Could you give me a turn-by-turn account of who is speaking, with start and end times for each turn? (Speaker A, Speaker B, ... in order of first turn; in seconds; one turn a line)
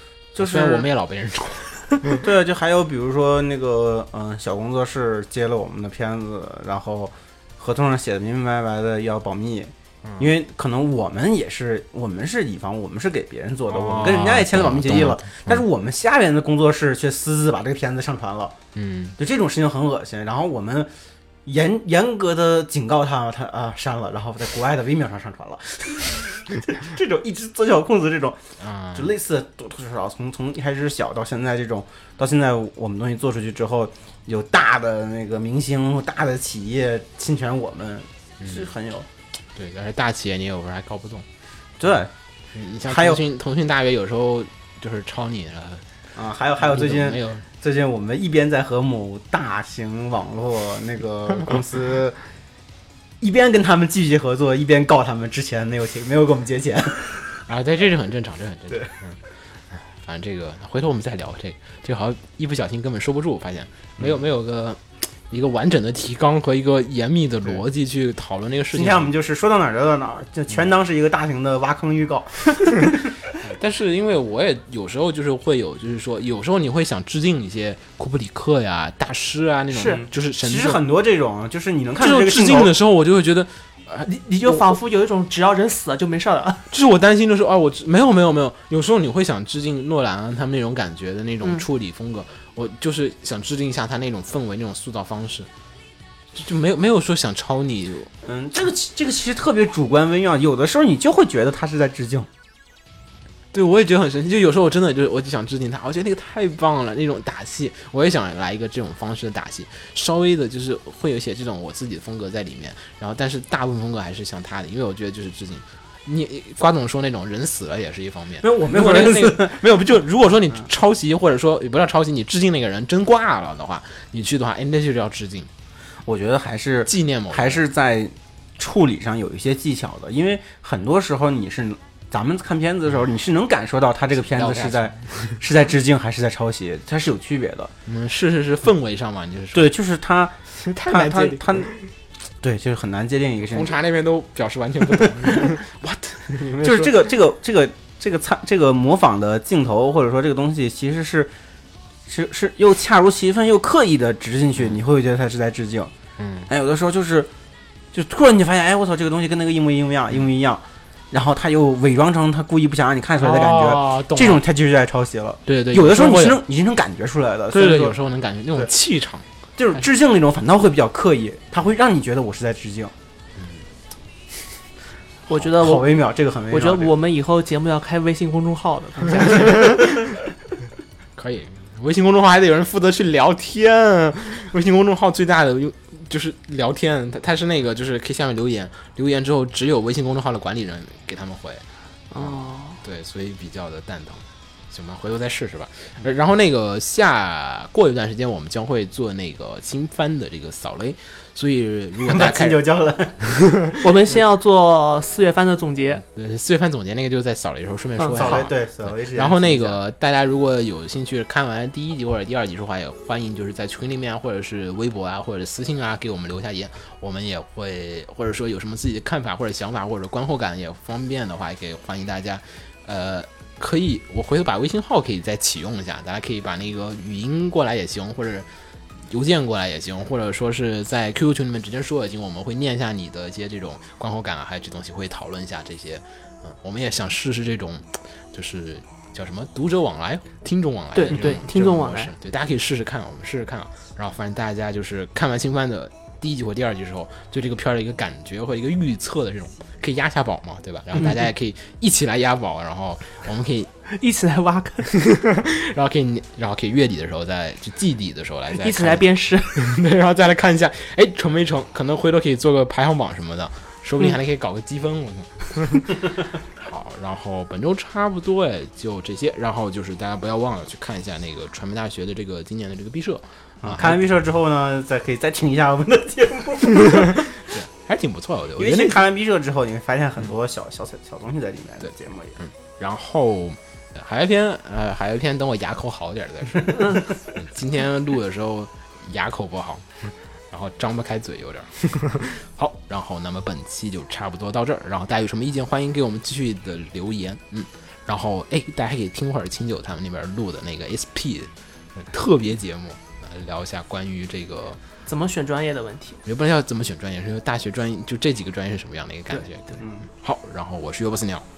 Speaker A: 0.3-0.9
Speaker B: 0.4-2.2
Speaker A: 2.2-18.6
Speaker B: 10.1-10.3
Speaker B: 13.7-15.6
Speaker B: 18.8-19.2
Speaker A: 19.2-20.9
Speaker A: 21.4-28.4
Speaker B: 28.6-29.1
Speaker A: 28.9-39.1
Speaker B: 38.4-38.7
Speaker B: 39.5-41.3
Speaker A: 41.8-42.1
Speaker B: 42.5-45.9
Speaker A: 42.9-43.2
Speaker A: 46.1-52.2
Speaker B: 46.6-47.5
Speaker A: 53.2-57.3
Speaker B: 57.5-59.2
Speaker B: 59.7-69.1
Speaker A: 68.7-73.2
Speaker B: 73.4-80.8
Speaker C: 79.7-80.0
Speaker A: 79.9-82.7
Speaker B: 82.0-84.6
Speaker C: 84.1-86.7
Speaker B: 86.7-95.5
Speaker B: 96.3-98.1
Speaker A: 98.2-102.3
Speaker B: 103.5-125.5
Speaker A: 118.4-119.6
Speaker A: 126.0-137.7
Speaker B: 126.9-127.6
Speaker B: 134.1-135.4
Speaker B: 137.9-139.7
Speaker A: 139.5-141.7
Speaker B: 140.5-141.9
Speaker A: 142.4-143.8
Speaker B: 143.5-147.0
Speaker A: 144.9-145.5
Speaker A: 146.6-151.3
Speaker A: 152.1-155.9
Speaker B: 156.2-156.5
Speaker A: 156.5-157.3
Speaker A: 157.9-168.0
Speaker B: 163.2-164.4
Speaker B: 165.5-166.4
Speaker B: 167.5-169.3
Speaker A: 169.6-172.9
Speaker B: 173.4-173.7
Speaker C: 175.3-175.9
Speaker A: 175.6-176.9
Speaker C: 176.5-179.9
Speaker B: 181.2-191.6
Speaker C: 192.1-192.8
Speaker B: 192.2-202.7
Speaker A: 202.0-203.6
Speaker C: 203.8-206.0
Speaker B: 206.0-228.5
Speaker C: 208.0-208.4
Speaker A: 208.2-209.8
Speaker B: 229.1-253.7
Speaker C: 241.0-242.1
Speaker C: 251.0-251.3
Speaker C: 253.9-254.9
Speaker B: 254.9-266.0
Speaker C: 258.5-259.6
Speaker B: 266.6-274.0
Speaker A: 273.6-277.2
Speaker B: 276.8-279.0
Speaker A: 278.6-282.4
Speaker B: 281.8-304.8
Speaker C: 305.1-306.2
Speaker B: 306.3-311.4
Speaker A: 309.8-310.1